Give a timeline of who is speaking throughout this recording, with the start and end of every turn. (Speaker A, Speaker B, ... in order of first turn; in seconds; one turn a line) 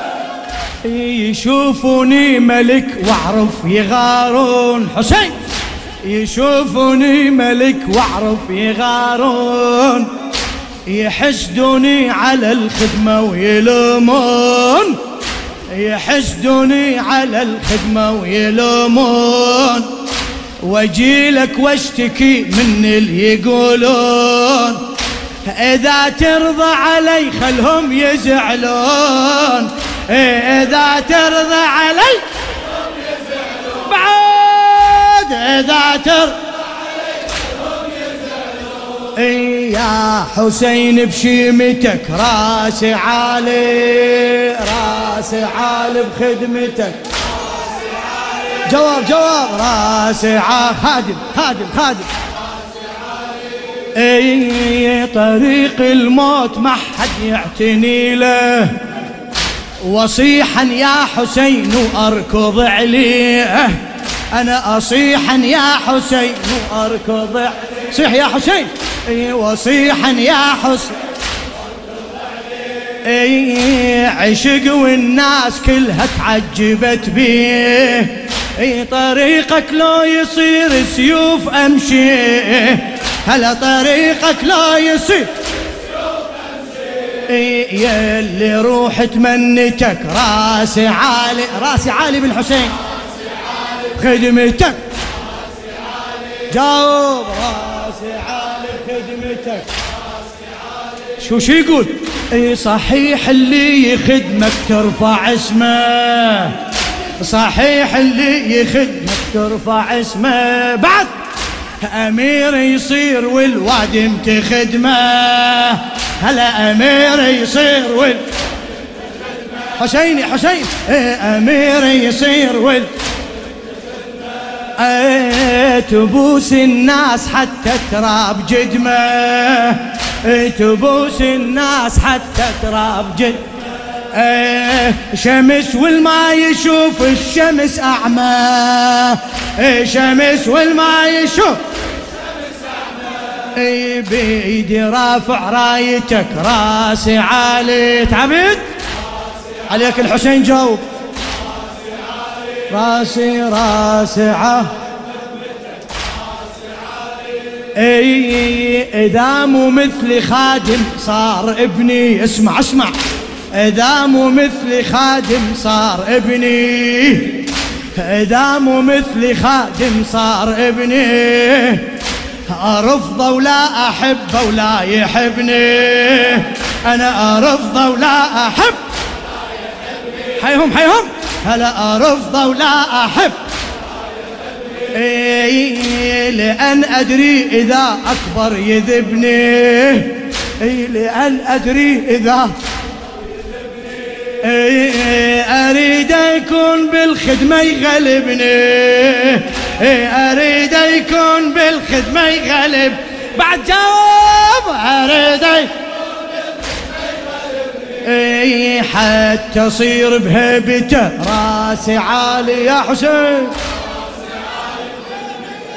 Speaker A: 0.8-5.4
Speaker A: 6.0-10.1
Speaker A: 10.9-15.0
Speaker A: 15.7-19.9
Speaker A: 20.6-24.9
Speaker A: 25.4-32.2
Speaker A: 33.6-36.4
Speaker A: 39.1-47.0
Speaker A: 48.6-52.1
Speaker A: 53.9-58.8
Speaker A: 59.8-71.0
Speaker A: 73.0-85.3
Speaker A: 87.3-92.8
Speaker A: 93.9-94.8
Speaker A: 96.5-99.7
Speaker A: 101.2-106.6
Speaker A: 107.2-111.1
Speaker A: 111.8-118.2
Speaker A: 119.8-122.9
Speaker A: 124.8-133.4
Speaker A: 134.1-141.6
Speaker A: 143.6-148.7
Speaker A: 149.7-150.8
Speaker A: 152.7-154.7
Speaker A: 157.8-163.0
Speaker A: 163.5-171.9
Speaker A: 172.5-178.8
Speaker A: 180.4-183.4
Speaker A: 184.9-192.5
Speaker A: 194.4-205.7
Speaker A: 208.0-213.6